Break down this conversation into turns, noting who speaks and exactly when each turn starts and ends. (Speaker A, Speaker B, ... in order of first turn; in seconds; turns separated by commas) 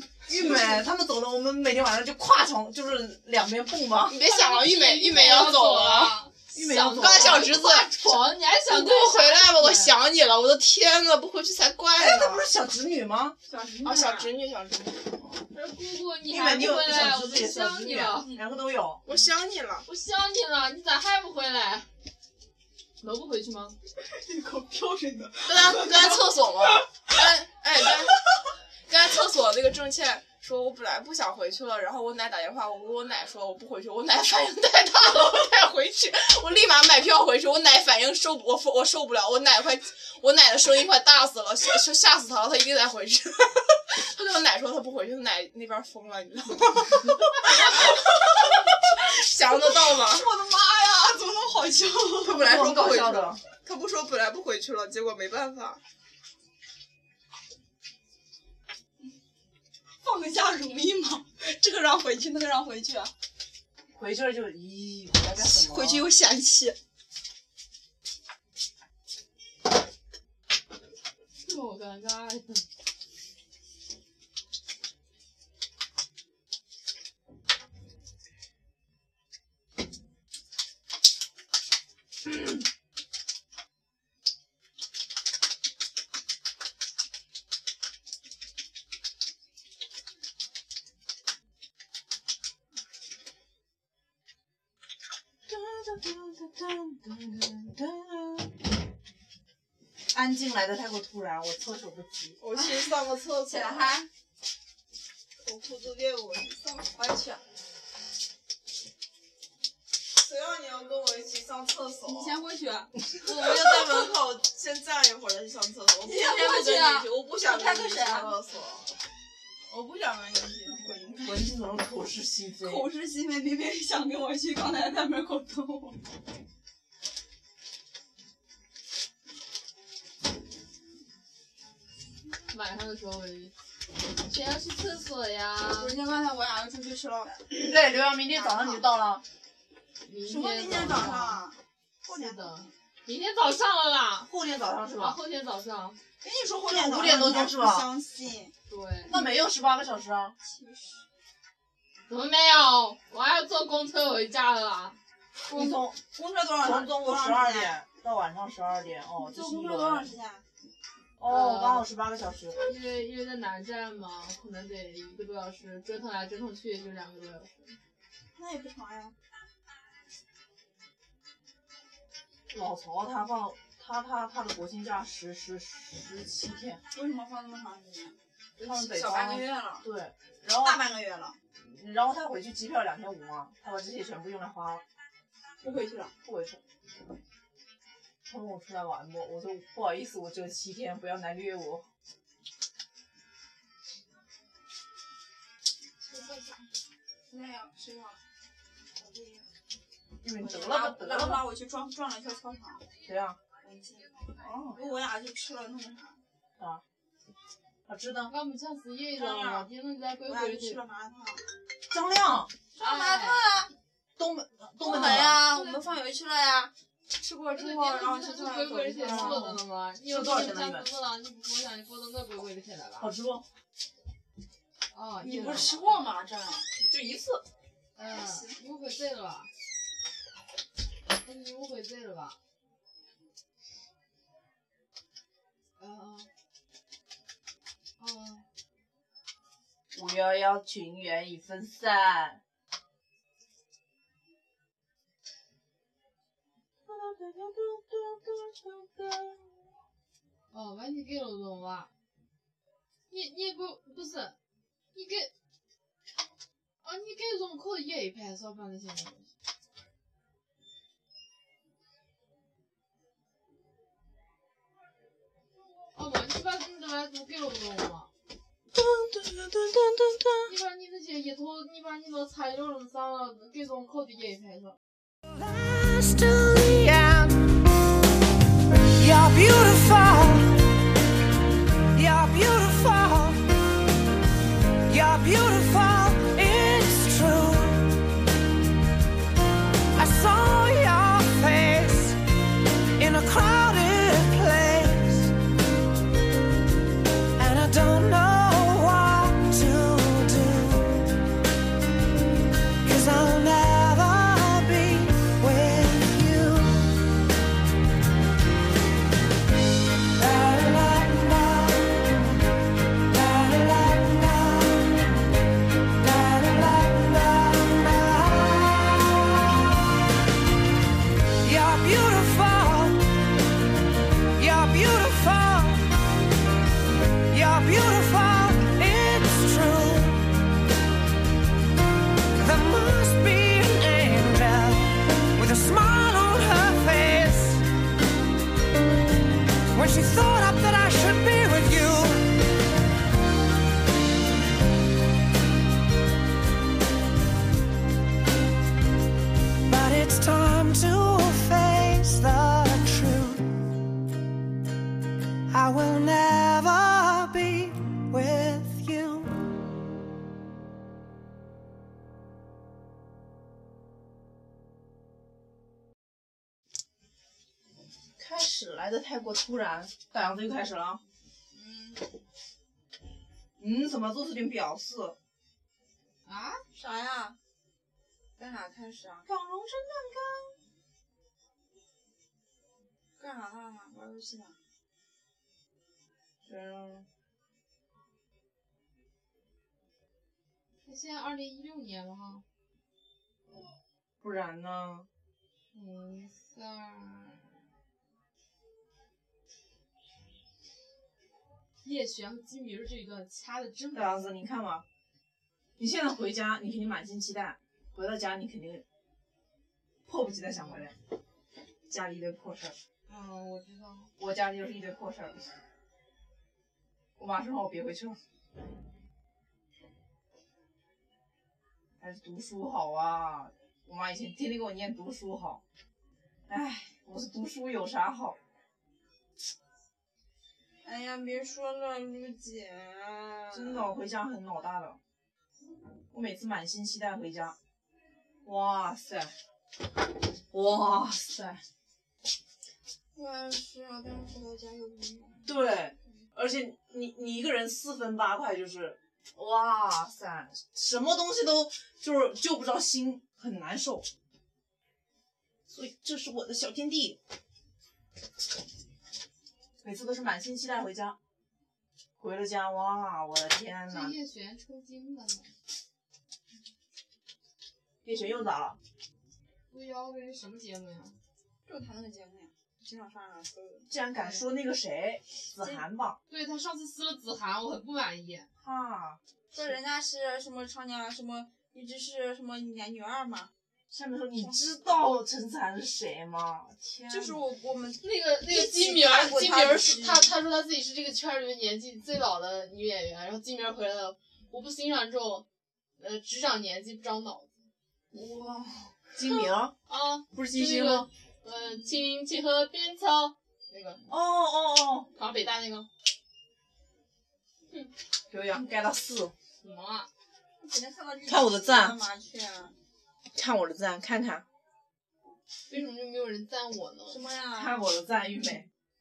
Speaker A: 0.3-4.2, Speaker B: 0.3-0.7, Speaker B: 4.1-6.2, Speaker C: 4.2-9.9, Speaker A: 6.5-7.6, Speaker B: 6.9-8.0, Speaker B: 8.7-12.4, Speaker A: 11.9-13.4, Speaker D: 13.5-14.3, Speaker B: 13.8-15.3, Speaker C: 15.5-18.3, Speaker A: 16.2-19.0, Speaker D: 18.2-18.5, Speaker B: 19.0-19.8, Speaker C: 19.8-21.9, Speaker C: 23.0-23.8, Speaker D: 24.1-27.0, Speaker B: 25.4-28.2, Speaker B: 28.9-50.3, Speaker D: 49.9-52.4, Speaker A: 52.2-53.4, Speaker B: 52.3-55.8, Speaker D: 60.0-63.1, Speaker A: 63.9-66.1, Speaker D: 65.4-66.8, Speaker C: 71.4-72.6, Speaker A: 95.5-98.6, Speaker A: 100.1-102.4, Speaker B: 102.4-104.0, Speaker D: 102.5-104.1, Speaker D: 105.4-107.4, Speaker B: 110.2-112.4, Speaker D: 112.0-114.2, Speaker B: 113.2-118.9, Speaker D: 116.0-118.4, Speaker D: 119.7-121.3, Speaker B: 120.7-121.2, Speaker A: 121.2-122.9, Speaker D: 122.6-126.0, Speaker C: 132.5-133.5, Speaker C: 134.1-136.0, Speaker D: 135.6-137.6, Speaker A: 137.5-139.2, Speaker D: 138.3-138.8, Speaker C: 140.0-141.4, Speaker D: 140.2-142.7, Speaker C: 142.1-144.3, Speaker A: 144.3-145.2, Speaker C: 145.0-146.0, Speaker D: 146.2-148.5, Speaker A: 146.7-147.9, Speaker C: 148.7-149.1, Speaker A: 149.1-150.3, Speaker D: 150.4-151.0, Speaker C: 152.1-155.0, Speaker A: 155.5-156.0, Speaker D: 155.5-157.7, Speaker A: 156.6-160.1, Speaker D: 159.2-160.4, Speaker A: 161.2-162.6, Speaker C: 161.2-161.9, Speaker C: 162.6-167.8, Speaker D: 168.3-169.1, Speaker A: 172.5-176.8, Speaker D: 176.9-179.9, Speaker A: 178.6-180.8, Speaker D: 180.5-181.4, Speaker A: 181.6-184.8, Speaker D: 185.6-186.1, Speaker A: 186.2-186.6, Speaker A: 188.2-191.8, Speaker D: 196.0-196.7, Speaker D: 197.3-198.2, Speaker D: 198.9-199.5, Speaker A: 200.2-201.4, Speaker D: 200.4-202.8, Speaker A: 203.1-203.4, Speaker D: 203.6-206.2, Speaker A: 204.4-204.8, Speaker A: 207.9-208.3, Speaker C: 208.3-210.8, Speaker D: 209.2-209.7, Speaker D: 210.3-211.4, Speaker A: 211.9-212.5, Speaker D: 212.8-213.7, Speaker C: 212.8-213.4, Speaker A: 214.2-215.5, Speaker D: 214.8-219.4, Speaker C: 214.9-215.8, Speaker C: 217.5-223.1, Speaker A: 219.0-220.9, Speaker A: 223.0-223.4, Speaker C: 224.9-226.0, Speaker D: 225.2-226.7, Speaker A: 226.8-227.4, Speaker C: 227.9-229.5, Speaker D: 228.0-228.6, Speaker C: 231.2-232.4, Speaker C: 235.8-236.3, Speaker C: 238.0-238.4, Speaker A: 239.9-242.4, Speaker A: 246.8-249.7, Speaker C: 250.5-251.9, Speaker C: 253.1-254.4, Speaker C: 254.9-255.3, Speaker C: 256.8-259.3, Speaker C: 265.9-268.1, Speaker A: 268.8-269.6, Speaker C: 270.5-274.8, Speaker E: 275.3-277.4, Speaker E: 278.9-280.6, Speaker E: 281.9-283.5, Speaker E: 284.8-288.0, Speaker E: 289.9-292.2, Speaker E: 293.0-295.3, Speaker E: 297.4-301.2, Speaker E: 302.8-307.0, Speaker E: 310.1-312.4, Speaker E: 313.1-315.2, Speaker E: 316.0-319.2, Speaker E: 321.4-323.2, Speaker E: 324.3-325.9, Speaker E: 327.3-330.3, Speaker E: 332.3-337.6, Speaker E: 339.7-342.4, Speaker E: 349.7-353.7, Speaker E: 355.5-359.6, Speaker A: 368.2-371.0, Speaker D: 371.5-372.2, Speaker A: 373.6-375.2, Speaker C: 376.2-376.6, Speaker D: 376.2-377.4, Speaker D: 378.4-379.3, Speaker A: 379.2-380.6, Speaker D: 383.2-384.6, Speaker A: 386.4-387.1, Speaker C: 390.8-392.4, Speaker A: 394.2-395.1, Speaker C: 395.7-397.6, Speaker C: 401.8-404.3, Speaker A: 403.9-404.8, Speaker A: 405.8-408.8, Speaker A: 410.1-410.9, Speaker A: 411.9-412.8, Speaker D: 413.1-414.1, Speaker A: 414.2-415.5, Speaker A: 417.2-418.2, Speaker A: 422.0-425.6, Speaker A: 426.5-428.4, Speaker D: 430.8-433.9, Speaker A: 433.5-435.0, Speaker A: 436.1-437.6, Speaker A: 438.4-439.3, Speaker A: 440.5-441.6, Speaker D: 443.1-445.5, Speaker A: 445.4-454.1, Speaker A: 455.7-457.2, Speaker A: 459.8-461.2, Speaker A: 462.2-464.1, Speaker C: 463.9-465.5, Speaker A: 468.0-468.8, Speaker C: 469.7-471.2, Speaker D: 471.6-474.4, Speaker A: 473.9-476.2, Speaker C: 476.3-478.5, Speaker A: 478.6-479.8, Speaker D: 479.5-483.5, Speaker A: 483.9-487.4, Speaker D: 484.4-484.8, Speaker D: 487.1-490.3, Speaker C: 488.0-495.4, Speaker C: 496.0-497.6, Speaker A: 498.1-499.7, Speaker C: 499.9-504.0, Speaker A: 500.3-501.1, Speaker A: 504.1-505.1, Speaker C: 505.1-505.9, Speaker A: 508.3-509.3, Speaker C: 509.6-510.1, Speaker D: 510.6-512.7, Speaker A: 511.3-511.9, Speaker A: 513.3-514.4, Speaker C: 515.7-517.3, Speaker D: 517.1-517.8, Speaker A: 517.5-518.7